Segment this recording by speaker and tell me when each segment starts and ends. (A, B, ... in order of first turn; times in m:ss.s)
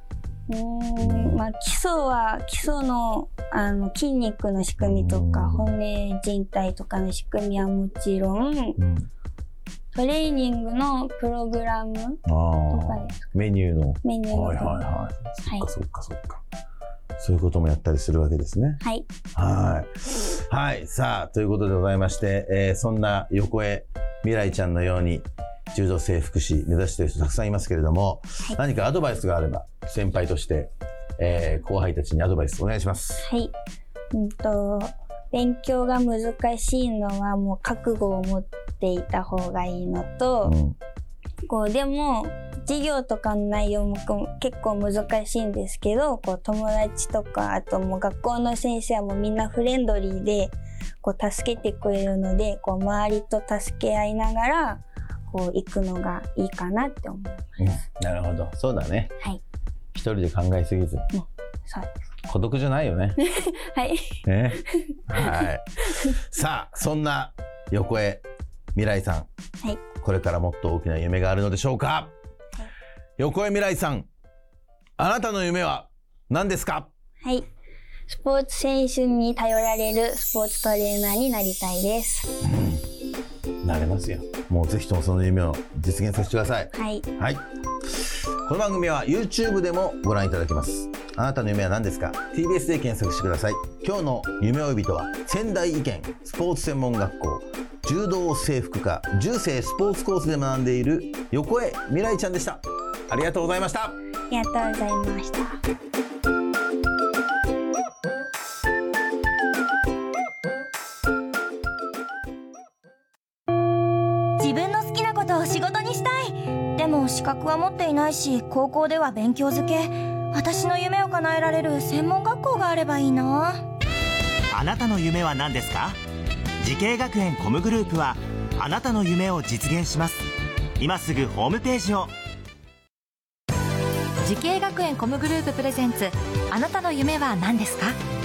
0:00.5-0:08.8 A
0:01.0-0:01.4 B
0:04.8-0:05.7 B
0:08.8-0:09.1 B
0:09.9-0:13.3 A
0:12.2-0:16.4 B
0:14.0-0:14.9 A
0:17.2-0:18.8 B
0:18.8-0:19.1 A
0:19.3-0:33.3 B
0:33.2-0:33.5 A
0:34.1-0:40.6 A
0:40.4-0:40.8 B
0:41.5-0:57.6 A
0:57.6-0:59.1 B
0:59.9-1:01.1 B
1:01.1-1:02.0 A
1:02.3-1:03.2 B
1:03.2-1:05.4 A
1:04.2-1:08.2 B
1:08.7-1:09.3 B
1:10.0-1:12.1 B
1:13.2-1:14.1 B
1:15.0-1:16.9 B
1:18.1-1:22.3 A
1:22.4-1:22.8 B
1:23.6-1:27.4 B
1:26.7-1:27.0 A
1:28.4-1:44.0 B
1:44.3-1:45.6 A
1:54.4-2:03.6 C
2:04.5-2:06.0 D
2:06.6-2:10.2 D
2:10.8-2:12.1 D
2:14.2-2:18.0 E